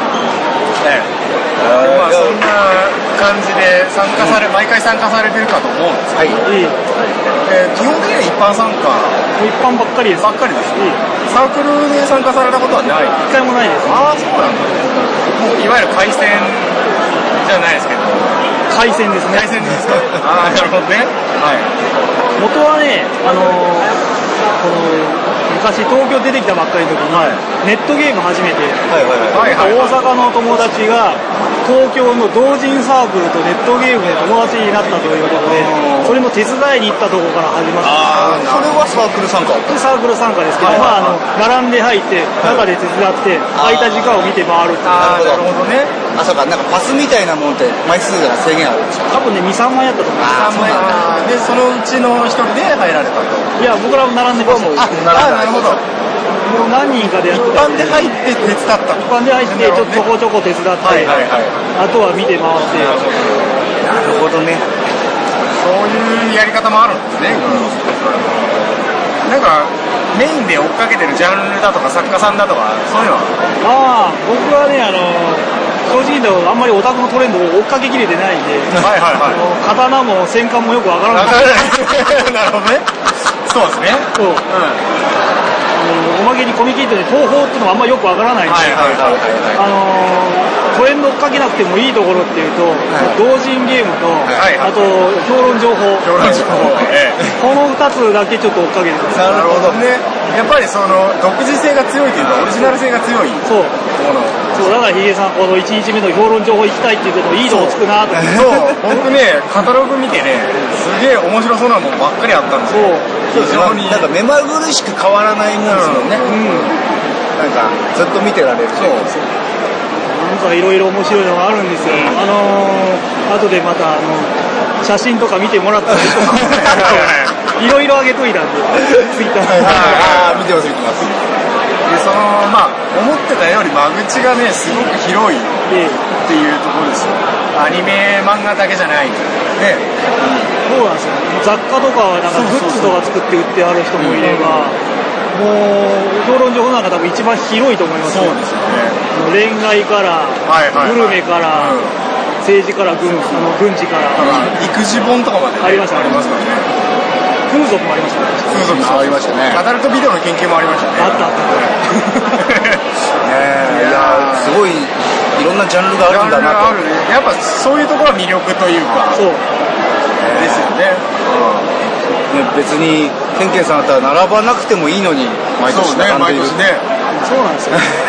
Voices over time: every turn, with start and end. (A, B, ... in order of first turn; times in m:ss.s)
0:00.8-0:01.1 A
0:01.6-0:06.4 A
0:01.6-0:02.4 B
0:06.4-0:06.8 C
0:07.4-0:09.2 A
0:09.4-0:11.0 C
0:10.2-0:13.3 A
0:13.3-0:14.2 C
0:13.8-0:16.8 A
0:17.4-0:18.4 A
0:18.7-0:19.6 C
0:19.3-0:21.7 A
0:22.4-0:23.9 C
0:24.6-0:38.3 C
0:27.1-0:27.4 A
0:28.9-0:29.7 B
0:29.3-0:30.0 A
0:35.4-0:36.2 A
0:37.8-0:38.9 A
0:38.0-0:39.7 B
0:39.7-0:45.0 C
0:40.6-0:41.2 A
0:43.6-0:44.0 B
0:44.8-0:46.0 A
0:45.0-0:49.1 B
0:49.1-0:50.8 C
0:50.2-0:51.1 B
0:50.2-0:53.5 A
0:53.6-0:55.0 C
0:54.3-0:55.8 B
0:54.8-0:55.8 A
0:56.4-0:58.2 C
0:57.3-1:00.0 A
0:59.0-1:03.0 C
1:00.8-1:01.6 A
1:02.7-1:03.6 A
1:03.9-1:04.6 B
1:05.5-1:08.7 A
1:07.4-1:07.6 B
1:09.2-1:13.3 A
1:13.6-1:21.7 C
1:18.7-1:19.4 A
1:21.1-1:22.9 A
1:23.4-1:24.8 A
1:24.2-1:24.5 C
1:25.7-1:36.7 C
1:28.4-1:29.6 A
1:34.3-1:34.8 A
1:36.0-1:37.4 A
1:37.4-1:39.8 C
1:39.1-1:44.8 A
1:43.4-1:43.8 C
1:44.5-1:48.9 C
1:47.5-1:54.1 A
1:52.7-1:53.1 C
1:53.3-1:56.3 B
1:55.6-1:56.8 A
1:56.2-1:56.8 C
1:57.4-1:59.1 B
1:58.7-1:59.2 A
2:00.0-2:09.9 C
2:01.9-2:02.2 A
2:06.3-2:07.4 A
2:09.5-2:10.5 A
2:09.5-2:11.2 B
2:11.8-2:19.9 A
2:15.7-2:16.0 C
2:20.2-2:20.5 B
2:20.6-2:24.8 C
2:22.3-2:23.1 A
2:24.0-2:24.7 A
2:25.3-2:28.4 C
2:28.0-2:29.0 A
2:29.1-2:31.8 C
2:30.4-2:31.9 A
2:32.4-2:34.6 C
2:34.2-2:36.7 A
2:35.6-2:36.4 C
2:37.5-2:38.9 C
2:38.5-2:42.8 A
2:38.6-2:39.6 B
2:41.0-2:41.8 C
2:43.2-2:46.8 B
2:43.4-2:44.6 A
2:46.0-2:49.2 A
2:49.1-2:49.4 C
2:50.2-2:51.7 A
2:50.3-2:50.7 B
2:52.3-2:56.6 B
2:55.6-2:56.8 A
2:57.2-2:57.9 C